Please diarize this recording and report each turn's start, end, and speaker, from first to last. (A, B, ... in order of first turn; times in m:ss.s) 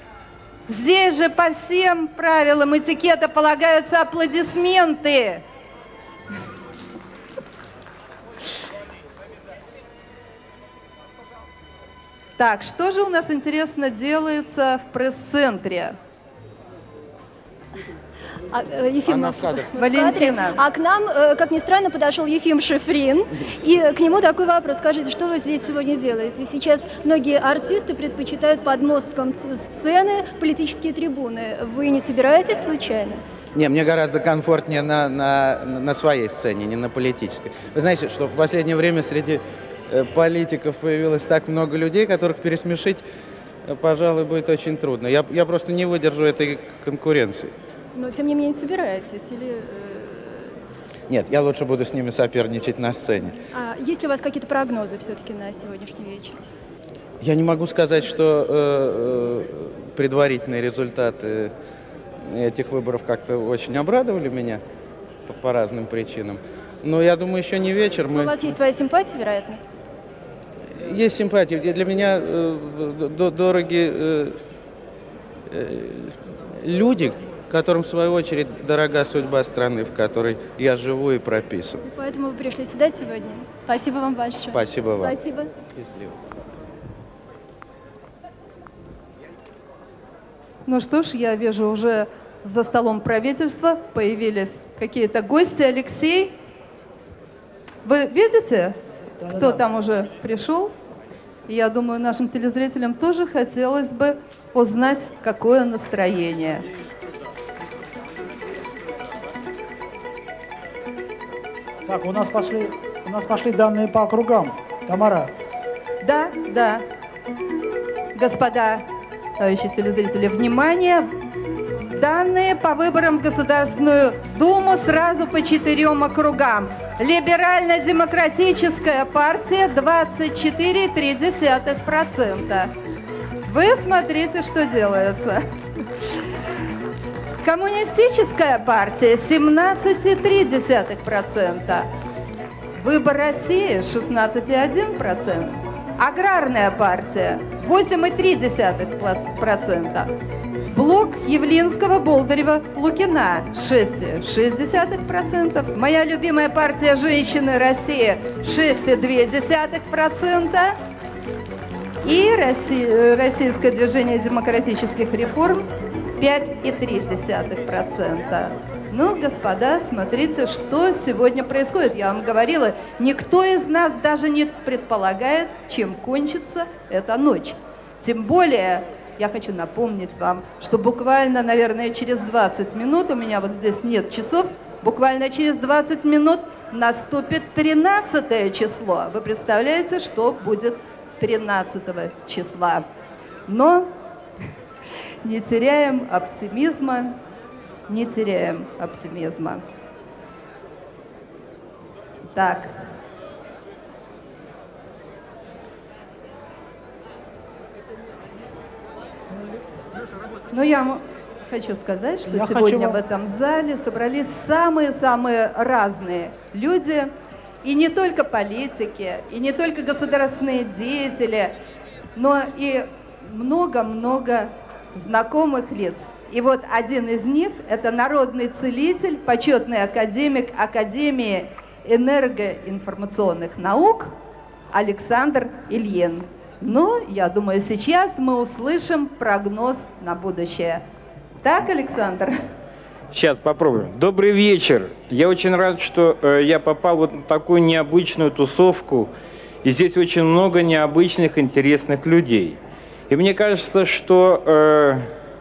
0:00.7-0:05.4 A
0:12.4-0:16.0 A
0:18.5-0:33.2 B
0:19.1-0:19.7 C
0:19.8-0:20.6 A
0:33.5-0:43.0 C
0:43.7-0:47.5 C
0:48.0-0:50.6 B
0:51.1-0:53.4 C
0:53.5-0:56.4 B
0:57.2-1:01.5 C
1:02.2-1:04.6 C
1:05.3-1:08.5 C
1:08.2-1:09.6 B
1:10.8-1:14.4 C
1:15.5-1:21.8 C
1:21.8-1:25.5 B
1:24.5-1:25.2 C
1:25.7-1:26.2 C
1:30.7-1:36.3 A
1:37.8-1:38.8 A
1:39.2-1:39.6 D
1:39.3-1:40.7 A
1:41.5-1:46.6 A
1:51.9-1:55.3 D
1:56.0-1:56.8 A
1:58.2-1:58.8 A
1:59.4-2:01.1 A
2:01.9-2:12.7 A
2:13.5-2:15.4 A
2:17.4-2:21.9 A
2:22.8-2:30.1 A
2:30.7-2:40.8 A
2:42.0-2:45.7 A
2:46.2-3:12.8 A
3:13.5-3:13.9 A
3:15.2-3:17.2 A
3:17.9-3:19.6 A
3:22.4-3:22.7 A
3:30.5-3:37.1 A
3:32.3-3:33.0 D
3:37.6-3:41.5 A
3:42.2-3:54.1 A
3:54.7-4:00.8 A
4:01.4-4:02.4 A
4:03.1-4:09.1 E
4:09.6-4:12.6 E
4:13.1-4:15.1 E